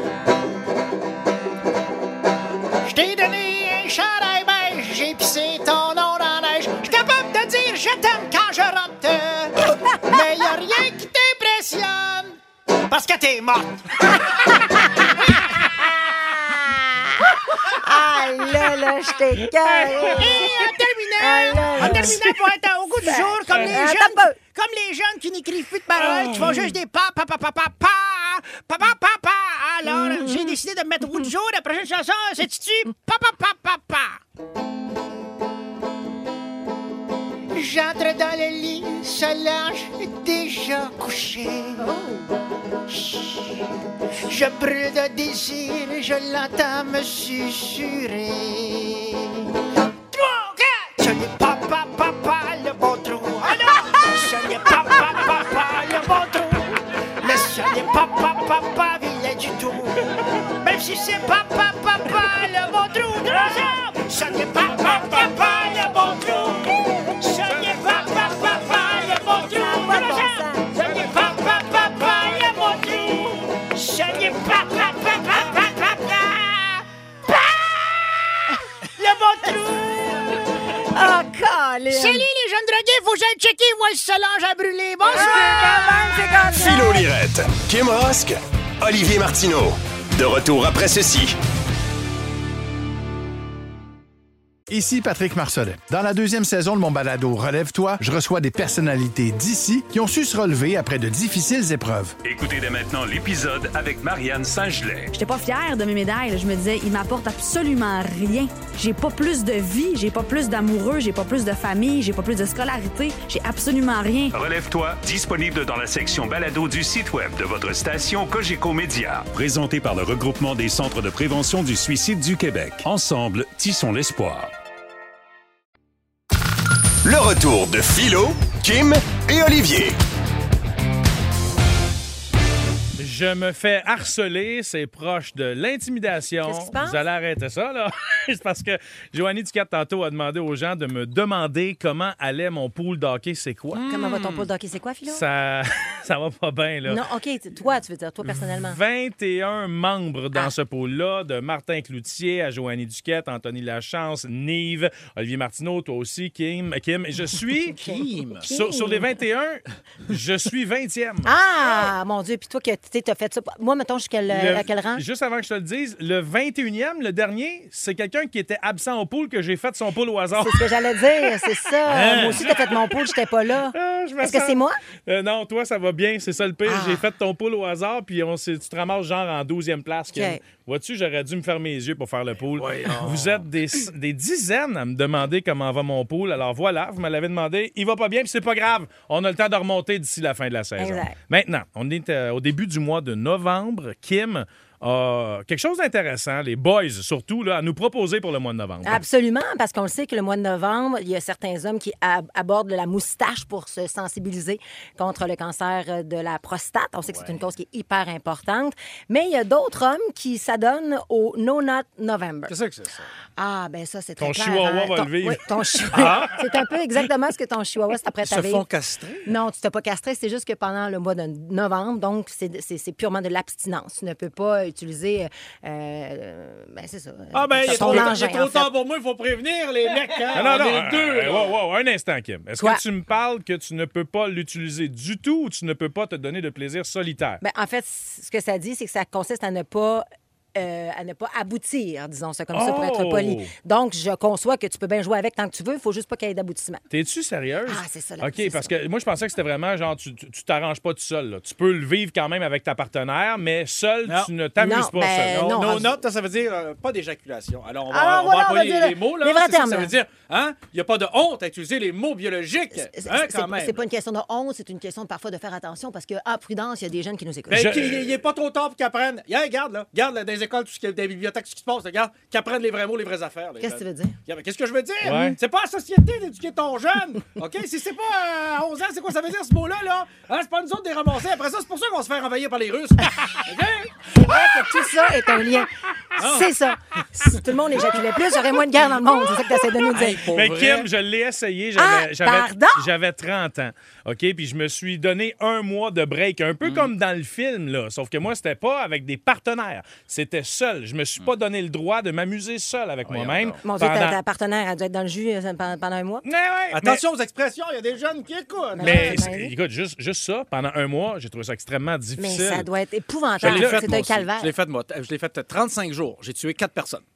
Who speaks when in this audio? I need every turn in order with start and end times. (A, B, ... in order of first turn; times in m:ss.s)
0:02.8-0:12.4 A
0:12.9-0:14.4 A
0:14.5-0:15.1 B
0:16.5-0:16.8 B
0:17.5-0:20.6 B
0:19.6-0:20.3 C
0:20.2-0:34.2 A
0:21.2-0:22.2 B
0:21.8-0:22.2 C
0:23.1-0:24.4 B
0:23.5-0:23.8 C
0:26.0-0:26.7 C
0:29.9-0:30.6 B
0:37.5-0:41.9 A
0:41.8-0:42.3 B
0:42.9-0:43.7 A
0:44.3-0:49.5 A
0:50.1-1:16.8 A
1:07.5-1:07.8 C
1:09.4-1:10.7 B
1:17.5-1:20.4 A
1:20.9-1:22.2 B
1:21.9-1:26.4 A
1:25.0-1:27.0 B
1:26.5-1:31.4 D
1:34.7-1:42.2 E
1:42.2-1:45.1 F
1:45.1-1:54.3 G
1:54.3-2:04.5 F
2:07.0-2:10.0 D
2:13.0-2:23.9 C
2:16.4-2:17.0 B
2:23.8-2:25.2 B
2:25.1-2:27.0 C
2:26.9-2:28.8 B
2:28.3-2:37.8 C
2:37.8-2:38.5 H
2:37.8-2:39.1 B
2:38.5-2:41.3 C
2:41.2-2:45.0 B
2:44.3-2:50.7 C
2:50.4-2:54.8 B
2:51.9-2:53.0 C
2:51.9-2:52.4 H
2:53.7-3:19.0 C
2:56.6-2:57.0 B
3:00.1-3:00.4 B
3:02.6-3:03.5 H
3:10.8-3:11.2 B
3:18.8-3:32.6 B
3:27.1-3:27.4 H
3:32.5-3:33.1 H
3:33.4-3:38.6 B
3:34.2-3:35.4 C
3:35.9-3:36.4 H
3:38.2-3:39.3 H
3:39.2-3:48.7 B
3:47.3-3:51.5 H
3:50.3-3:57.4 C
3:57.4-4:06.8 B
4:02.5-4:03.5 C
4:06.9-4:15.5 C
4:07.7-4:08.7 B
4:14.1-4:14.3 H
4:14.6-4:16.0 B
4:15.3-4:23.8 H
4:17.9-4:19.9 B
4:22.8-4:27.8 B
4:27.5-4:43.9 H
4:27.5-4:28.0 C
4:33.6-4:34.2 B
4:35.0-4:35.4 C
4:44.1-4:50.2 B
4:46.2-4:46.5 H
4:49.9-4:50.9 H
4:50.2-5:04.2 C
4:51.8-4:52.9 B
4:56.6-4:56.9 H
5:03.0-5:03.6 H
5:03.6-5:06.2 B
5:06.2-5:07.0 C
5:06.7-5:09.3 H
5:08.8-5:09.5 B
5:08.8-5:12.7 C
5:12.2-5:14.5 B
5:13.4-5:13.9 C
5:13.4-5:17.0 H